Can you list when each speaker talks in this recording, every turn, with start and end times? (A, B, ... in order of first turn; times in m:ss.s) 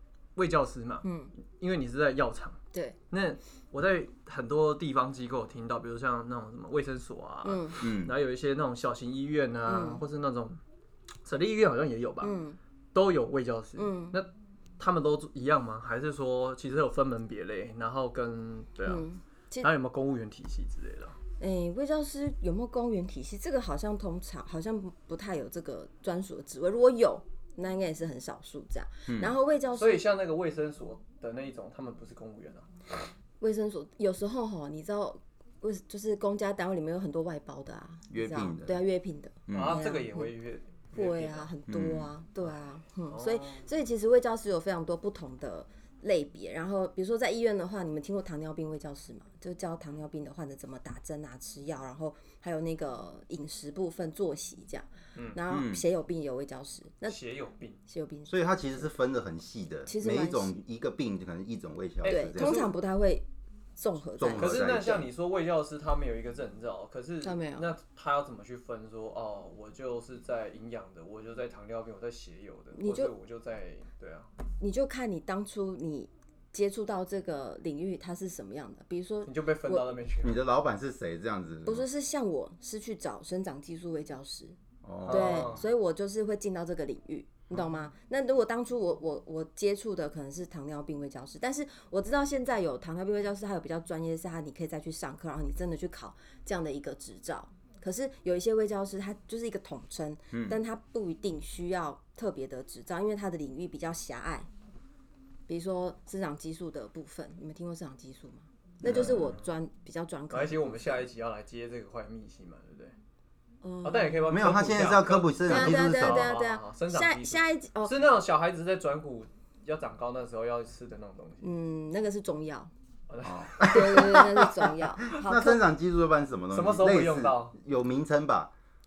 0:00.4-0:01.0 A
0:01.0-0:01.3 B
0:01.6-0:02.6 A
0:03.1-0:10.6 A
0:07.4-0:07.8 B
0:07.8-0:08.1 C
0:09.7-0:10.0 B
0:11.2-0:12.3 A
0:12.2-0:12.6 B
0:12.9-0:14.3 A
0:13.8-0:14.2 B
0:14.8-0:19.0 A
0:18.8-0:19.7 B
0:19.6-0:21.1 A
0:21.4-0:30.0 B
0:29.1-0:29.3 C
0:29.7-0:32.6 A
0:33.4-0:40.3 B
0:38.1-0:38.8 C
0:39.5-0:39.8 C
0:39.5-0:41.5 A
0:40.9-0:57.2 B
0:41.7-0:42.1 C
0:43.1-0:43.6 A
0:55.5-0:55.8 C
0:57.1-0:57.8 A
0:57.8-0:58.4 B
0:58.3-1:02.6 C
0:59.9-1:00.5 B
1:02.0-1:02.7 A
1:02.0-1:03.2 B
1:03.8-1:05.0 B
1:04.2-1:05.0 C
1:04.4-1:14.3 A
1:07.2-1:07.7 B
1:12.7-1:13.1 B
1:14.6-1:19.9 B
1:19.2-1:20.4 A
1:20.2-1:21.8 C
1:21.6-1:24.6 B
1:24.8-1:25.6 C
1:25.0-1:25.6 A
1:25.1-1:44.5 B
1:40.3-1:40.6 C
1:45.5-1:51.0 B
1:48.8-1:49.2 C
1:48.8-1:49.5 A
1:50.3-1:52.9 A
1:53.6-1:54.3 B
1:53.8-2:01.5 A
1:54.3-1:56.3 C
1:55.4-1:57.9 B
2:01.4-2:02.7 B
2:03.1-2:03.7 A
2:03.2-2:08.5 C
2:03.6-2:05.6 B
2:06.5-2:07.6 A